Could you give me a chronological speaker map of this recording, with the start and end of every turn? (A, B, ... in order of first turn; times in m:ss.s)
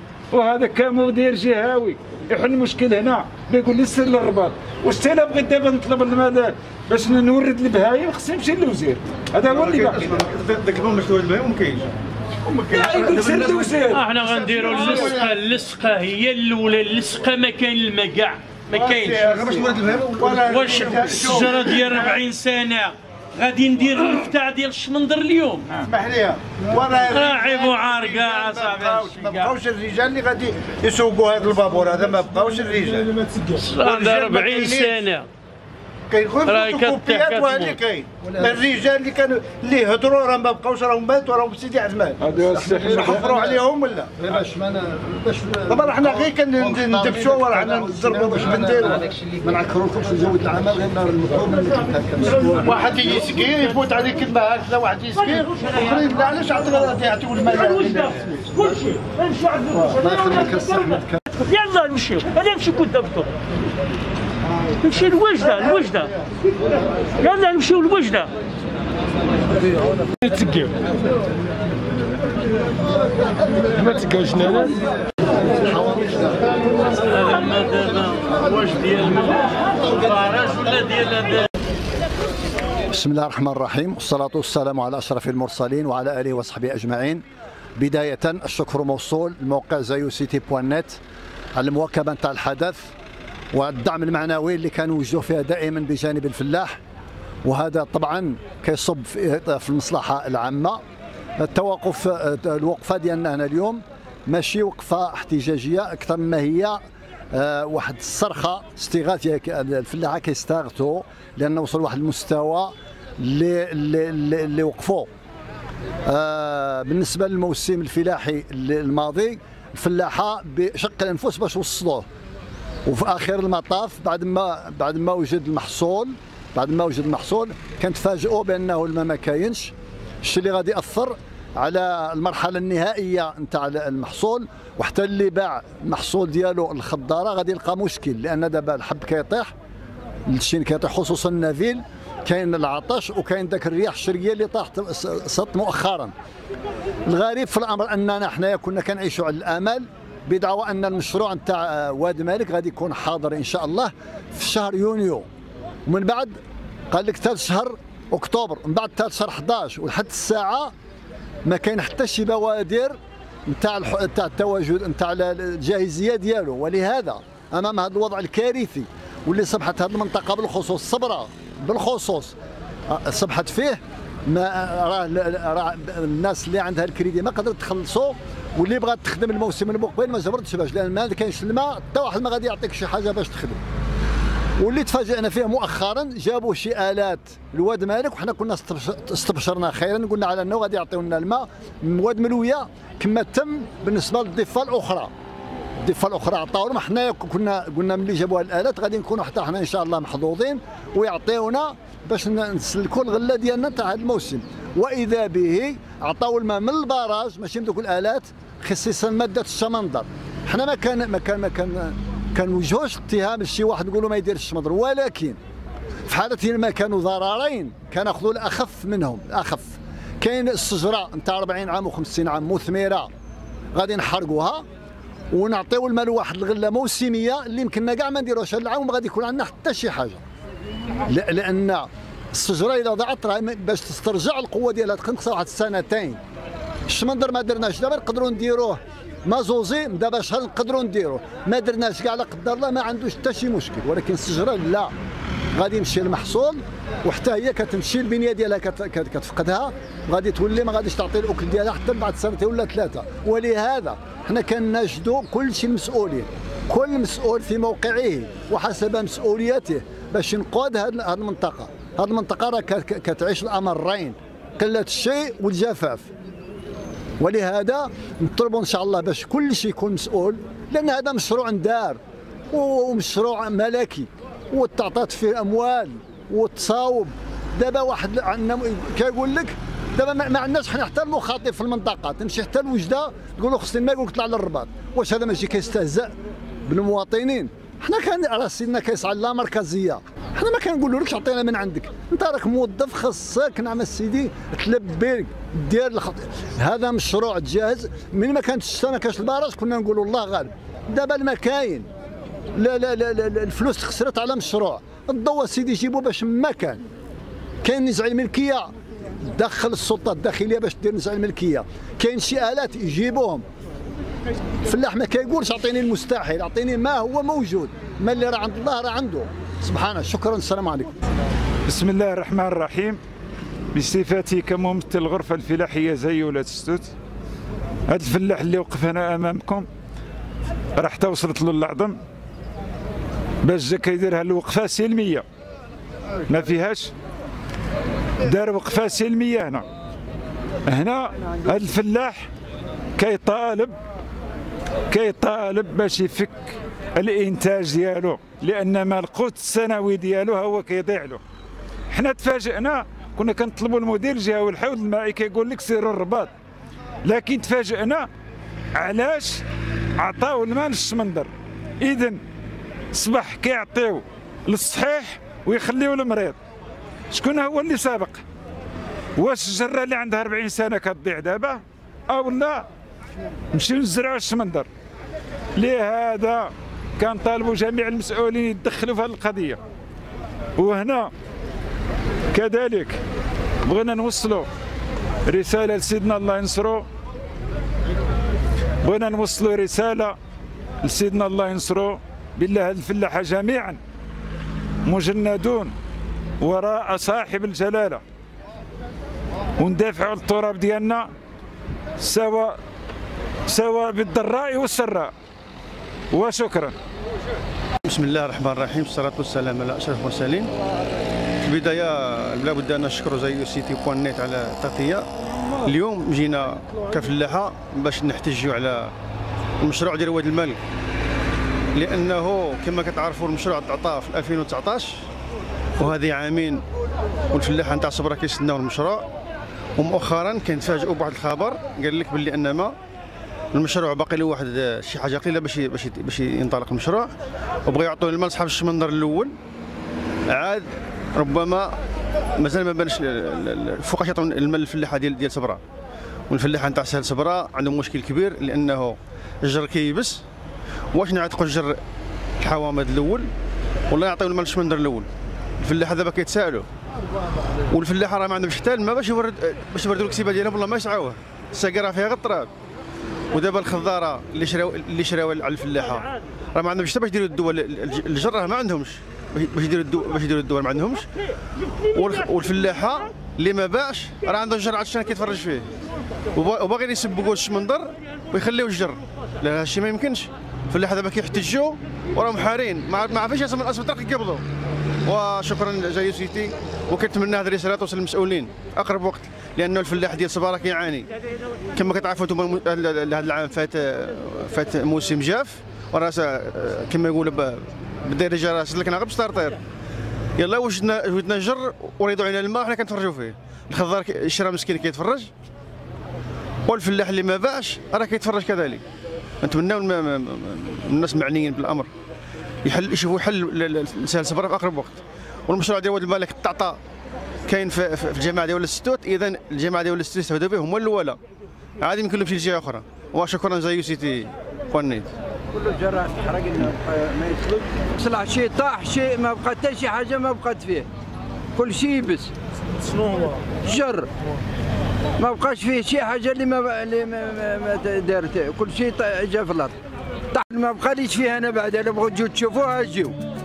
0:00.3-0:10.0 A
0:09.5-0:11.9 B
0:12.5-0:15.4 C
0:12.7-0:14.1 A
0:13.9-0:19.4 D
0:18.7-0:22.2 C
0:20.3-0:25.8 D
0:25.8-0:35.2 C
0:27.1-0:29.6 D
0:33.5-0:35.3 D
0:36.1-0:42.2 C
0:36.5-0:37.8 D
0:42.2-0:43.3 A
0:42.4-0:43.6 E
0:42.7-0:44.2 C
0:44.2-0:52.8 E
0:45.7-0:49.1 C
0:52.6-0:58.9 C
0:58.7-0:59.7 D
0:59.6-1:01.2 E
1:01.4-1:03.3 D
1:04.8-1:06.1 D
1:07.2-1:08.3 D
1:10.2-1:10.7 A
1:12.8-1:14.8 E
1:15.4-1:20.2 E
1:17.2-1:19.3 D
1:20.0-1:21.5 D
1:22.9-1:27.2 E
1:27.8-1:31.0 E
1:31.6-1:32.9 E
1:33.5-1:36.8 E
1:37.4-1:40.8 E
1:41.4-1:55.1 E
1:56.0-2:02.1 E
2:02.8-2:19.5 E
2:20.3-2:26.1 E
2:27.1-2:35.3 E
2:35.9-2:36.4 E
2:36.9-2:40.7 E
2:41.4-2:43.0 E
2:43.5-2:52.4 E
2:52.9-3:03.6 E
3:04.6-3:15.1 E
3:15.8-3:35.4 E
3:36.1-3:43.1 E
3:43.7-3:44.6 E
3:45.3-3:50.2 E
3:51.1-3:56.2 E
3:56.9-4:04.9 E
4:05.6-4:26.1 E
4:27.2-4:32.0 E
4:32.5-4:46.1 E
4:46.7-5:01.9 E
5:02.5-5:06.8 E
5:07.6-5:13.4 E
5:14.6-5:21.0 E
5:21.7-5:23.0 A
5:23.7-5:26.9 A
5:27.9-5:29.7 A
5:30.8-5:32.0 A
5:33.4-5:35.2 A
5:36.3-5:36.9 A
5:38.2-5:39.7 A
5:40.7-5:42.3 A
5:43.0-5:43.8 A
5:44.9-5:51.2 A
5:51.9-5:56.3 A
5:57.0-5:58.1 A
5:58.8-5:59.4 A
6:00.0-6:02.2 A
6:02.9-6:06.4 A
6:07.1-6:08.2 A
6:09.2-6:12.7 A
6:13.5-6:14.7 A
6:15.6-6:19.6 A
6:20.6-6:21.1 A
6:22.3-6:23.0 A
6:23.6-6:24.5 A
6:25.3-6:26.9 A
6:28.8-6:30.2 A
6:30.8-6:33.8 A
6:34.8-6:35.7 A
6:36.4-6:38.0 A
6:39.6-6:41.1 A
6:42.0-6:42.6 A
6:43.5-6:45.1 A
6:46.1-6:46.8 A
6:47.8-6:50.5 B
6:51.4-6:55.0 B
6:55.6-6:58.9 B
6:59.6-7:00.6 B
7:01.8-7:05.0 B
7:05.8-7:06.6 B
7:07.3-7:09.1 B
7:09.8-7:12.7 B
7:13.5-7:17.1 B
7:17.7-7:19.4 B
7:20.3-7:21.7 B
7:22.4-7:25.6 B
7:26.3-7:30.2 B
7:30.9-7:31.8 B
7:32.4-7:33.3 B
7:33.9-7:35.1 B
7:35.6-7:36.6 B
7:37.7-7:42.5 B
7:43.3-7:51.1 B
7:51.9-7:55.7 B
7:56.3-8:04.4 B
8:05.1-8:11.1 B
8:11.8-8:19.6 B
8:20.4-8:25.3 B
8:26.7-8:28.8 B
8:29.4-8:31.9 B
8:32.6-8:36.8 B
8:37.5-8:41.2 B
8:41.8-8:45.1 B
8:45.5-8:50.9 F
8:51.6-8:52.3 F
8:53.1-8:54.1 F
8:55.2-8:59.8 F
9:00.3-9:03.2 F